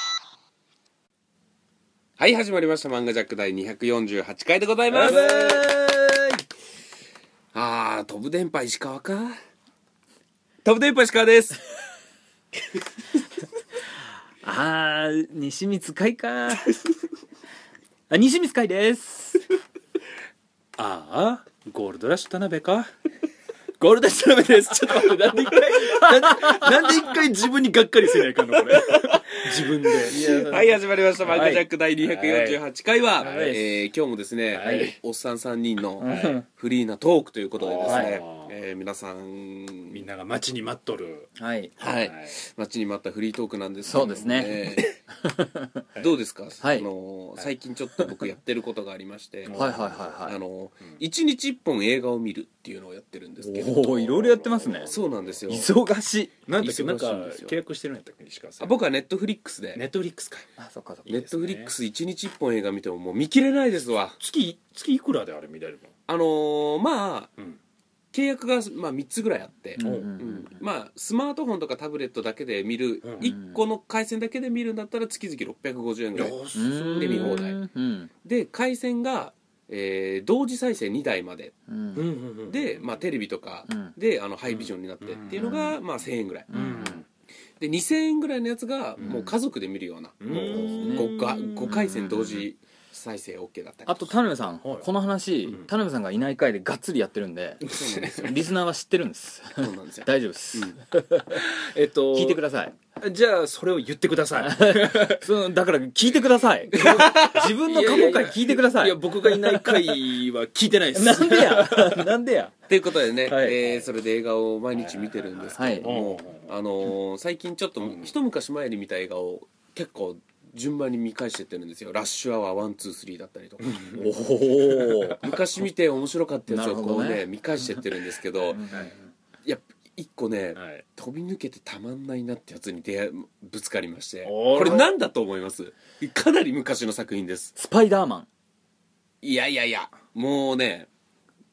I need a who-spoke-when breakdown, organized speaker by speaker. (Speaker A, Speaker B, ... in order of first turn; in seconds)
Speaker A: 2.2-5.7, 7.5-9.4, 10.6-11.6, 30.1-40.1, 41.8-44.9, 46.0-49.7, 50.2-55.7, 56.6-57.6, 58.6-59.8, 61.1-64.2, 66.1-67.3, 68.1-77.6, 78.2-81.5, 82.5-86.9, 87.6-94.1, 97.7-98.5, 99.6-100.8, 106.8-107.4, 112.7-124.1, 125.2-128.7, 129.4-137.6, 139.2-140.9
Speaker B: 4.9-6.4, 14.4-16.8, 18.1-19.4, 24.9-27.1, 30.0-31.6, 33.2-33.8, 34.6-34.9, 36.0-36.5, 37.8-38.2, 41.4-41.7, 43.9-45.8, 46.6-46.9, 49.5-50.4, 53.4-54.9, 55.5-56.3, 60.6-61.2, 69.8-70.6, 73.3-73.6, 76.5-78.1, 81.7-82.0, 83.7-83.9, 85.4-85.8, 86.5-87.0, 89.1-89.3, 90.3-92.4, 93.9-101.5, 102.1-102.8, 104.4-110.1, 110.9-112.6, 113.2-113.6, 115.6-116.0, 124.0-125.2, 126.5-127.3, 128.5-128.9, 137.6-138.3
Speaker C: 20.8-22.9, 23.8-30.2, 31.3-32.6, 34.5-35.0, 36.0-36.4, 37.6-38.5, 39.9-41.3, 42.0-42.4, 43.9-45.0, 49.4-50.2, 54.1-55.7, 56.5-58.9, 59.7-60.5, 61.1-61.7, 64.2-65.9, 69.8-70.2, 73.0-73.4, 76.2-77.4, 82.0-82.9, 84.5-85.6, 86.5-87.0, 89.0-89.3, 90.2-91.9, 94.6-94.9, 97.6-98.3, 101.4-102.4, 103.0-105.2, 106.7-112.1, 114.8-116.5, 117.8-118.1, 123.6-124.1, 124.8-125.3, 128.7-128.9, 130.6-130.8, 134.2-134.9